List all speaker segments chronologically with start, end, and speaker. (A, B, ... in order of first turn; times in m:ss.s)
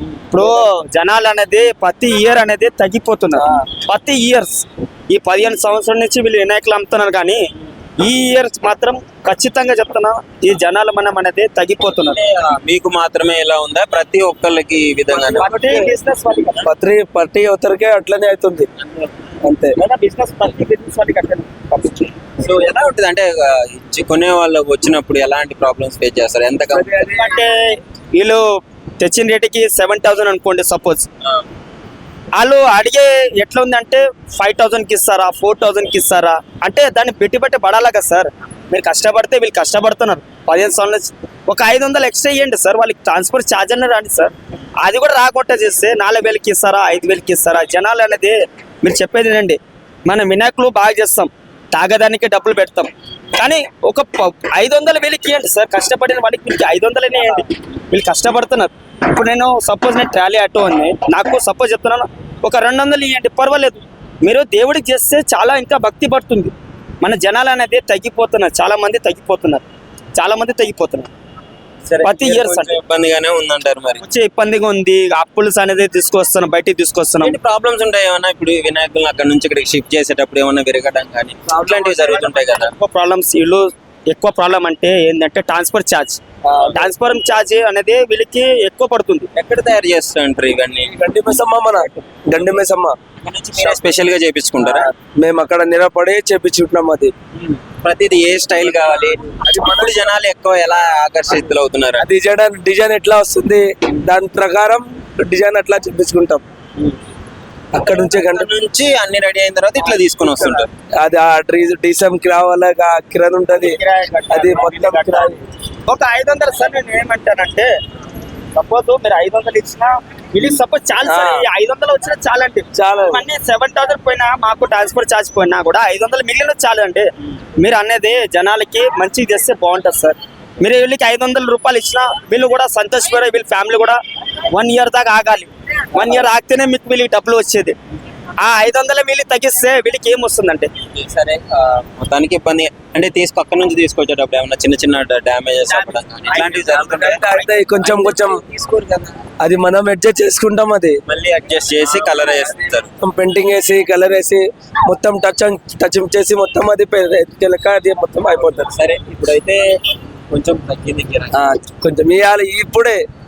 0:00.3-0:07.4 A
0:03.3-0:03.6 B
0:08.0-0:12.2 A
0:11.8-0:15.6 C
0:15.1-0:16.6 A
0:15.5-0:15.9 B
0:16.6-0:18.7 B
0:18.8-0:19.2 C
0:19.4-0:19.8 B
0:19.8-0:22.2 A
0:22.4-0:27.1 C
0:26.7-0:27.5 B
0:27.2-0:28.4 A
0:29.0-0:31.0 A
0:32.4-0:44.3 A
0:44.8-1:09.6 A
1:10.2-1:11.1 A
1:11.9-1:14.0 C
1:12.0-1:12.8 A
1:14.0-1:17.4 A
1:17.2-1:22.7 C
1:21.5-1:22.3 B
1:22.5-1:26.2 A
1:26.5-1:27.0 B
1:26.8-1:29.2 A
1:29.4-1:30.9 C
1:30.8-1:32.9 B
1:33.2-1:34.9 C
1:34.6-1:37.1 B
1:37.4-1:42.0 C
1:39.4-1:40.1 B
1:41.3-1:46.4 B
1:47.7-1:48.6 B
1:48.0-1:50.7 C
1:50.4-1:55.4 B
1:53.5-1:55.3 A
1:55.9-1:57.7 A
1:58.6-2:07.0 A
2:01.0-2:01.4 B
2:02.7-2:03.2 B
2:07.6-2:14.0 A
2:14.5-2:17.7 A
2:16.0-2:16.3 C
2:18.4-2:20.7 A
2:20.9-2:29.1 C
2:26.9-2:28.4 B
2:29.4-2:30.9 B
2:31.1-2:32.9 C
2:33.0-2:38.7 B
2:38.7-2:39.6 C
2:40.3-2:41.5 C
2:41.3-2:43.0 B